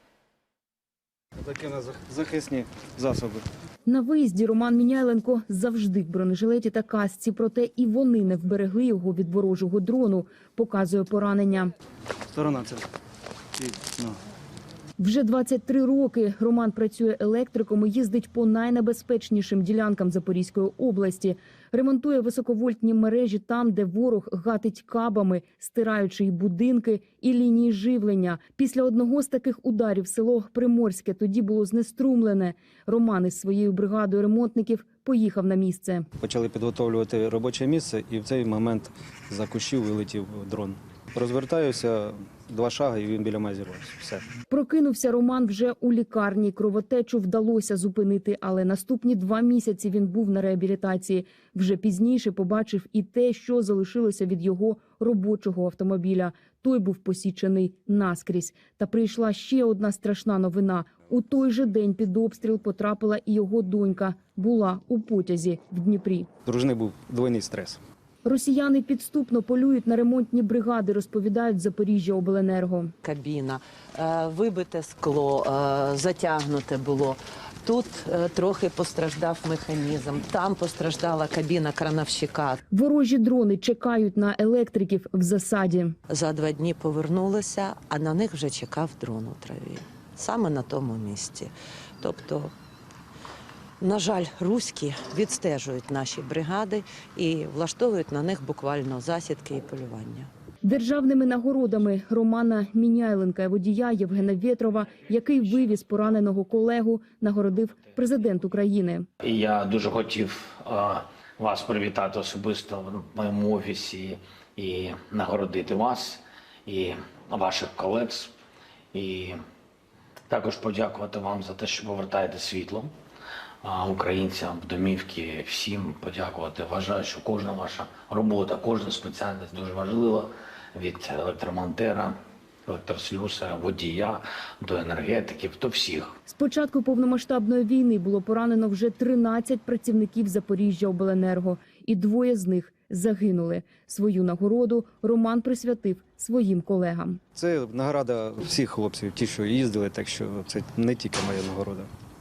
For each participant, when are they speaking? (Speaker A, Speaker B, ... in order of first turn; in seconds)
Speaker A: 1.4-3.5, 12.3-12.9, 13.6-14.2, 36.2-44.2, 66.5-67.8, 147.3-151.9
Speaker B: 3.9-11.7, 15.0-36.1, 44.5-66.3, 68.2-72.9, 82.7-86.0, 100.6-109.1, 136.2-147.2
Speaker C: 73.0-82.6, 86.1-92.5, 93.8-100.3
Speaker D: 109.2-118.3, 118.9-119.4, 120.3-122.9, 123.6-132.1, 132.7-136.1